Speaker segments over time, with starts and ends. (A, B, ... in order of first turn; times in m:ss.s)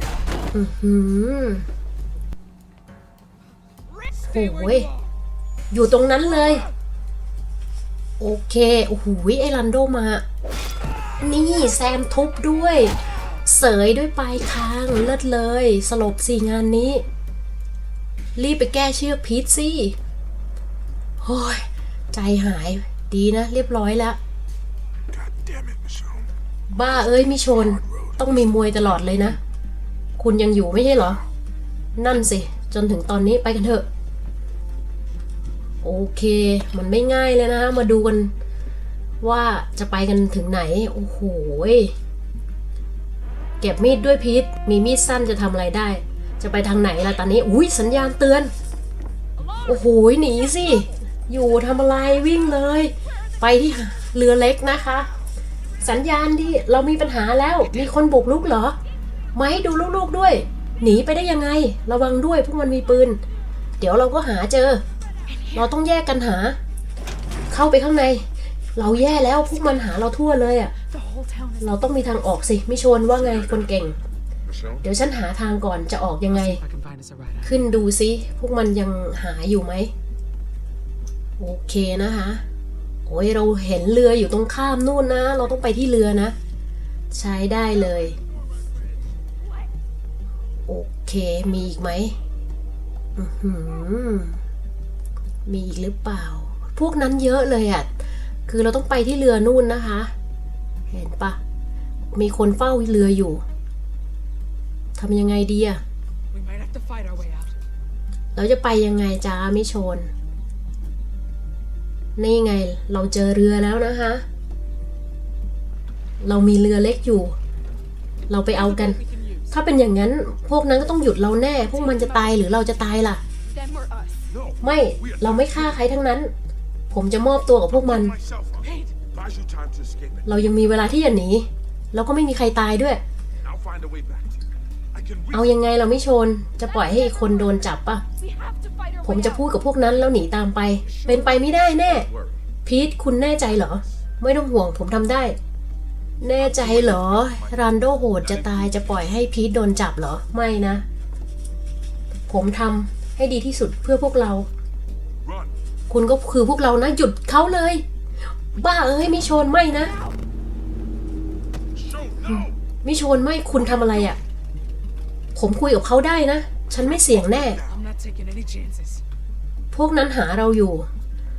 0:00.5-0:01.6 A
0:04.2-0:04.9 A
0:05.7-0:06.7 A
0:08.2-0:10.2 A
0:11.2-0:17.0 A
0:18.4-0:20.0 A
0:21.2-0:24.2 A
0:25.1-0:26.3 B
0:26.7-0:29.4 A
0:30.2-0:31.2 A
0:32.0-0:33.9 A
0:35.8-0:38.3 A
0:39.2-0:41.9 A
0:43.6-0:48.5 A
0:49.4-0:50.9 C
0:49.6-0:55.1 A
0:55.8-0:58.8 A
0:59.3-1:03.2 A
1:03.8-1:04.8 A
1:05.3-1:05.6 C
1:05.5-1:06.6 A
1:07.5-1:08.2 A
1:08.8-1:10.7 A
1:10.9-1:12.2 C
1:11.6-1:14.0 A
1:13.1-1:13.6 B
1:14.5-1:14.8 B
1:14.8-1:16.6 A
1:16.3-1:17.6 D
1:17.4-1:19.9 A
1:21.4-1:22.4 A
1:23.1-1:26.3 A
1:27.1-1:28.2 A
1:30.7-1:32.1 A
1:33.2-1:34.4 A
1:35.4-1:37.9 A
1:38.5-1:40.1 A
1:40.9-1:41.4 A
1:42.1-1:43.4 A
1:44.9-1:45.8 A
1:46.3-1:47.5 D
1:48.3-1:50.1 A
1:52.2-1:54.2 A
1:56.2-1:57.3 A
1:58.3-1:59.0 A
1:58.5-1:59.4 D
1:59.5-2:03.2 A
2:01.7-2:02.4 C
2:03.4-2:04.2 C
2:04.3-2:05.6 B
2:04.6-2:06.3 A
2:06.9-2:08.1 A
2:07.7-2:10.3 B
2:08.6-2:08.9 C
2:10.2-2:13.0 A
2:13.4-2:14.4 B
2:14.9-2:15.5 B
2:15.3-2:18.0 A
2:16.7-2:17.6 C
2:18.2-2:19.6 C
2:19.0-2:22.1 A
2:20.9-2:21.3 C
2:21.8-2:22.3 B
2:22.6-2:25.4 A
2:26.2-2:30.8 A
2:26.4-2:27.4 B
2:28.2-2:28.9 B
2:32.3-2:34.5 A
2:35.2-2:35.5 B
2:35.9-2:37.8 A
2:38.5-2:39.9 A
2:41.8-2:42.5 B
2:42.3-2:44.2 A
2:45.3-2:47.6 A
2:47.5-2:49.0 D
2:49.7-2:50.9 A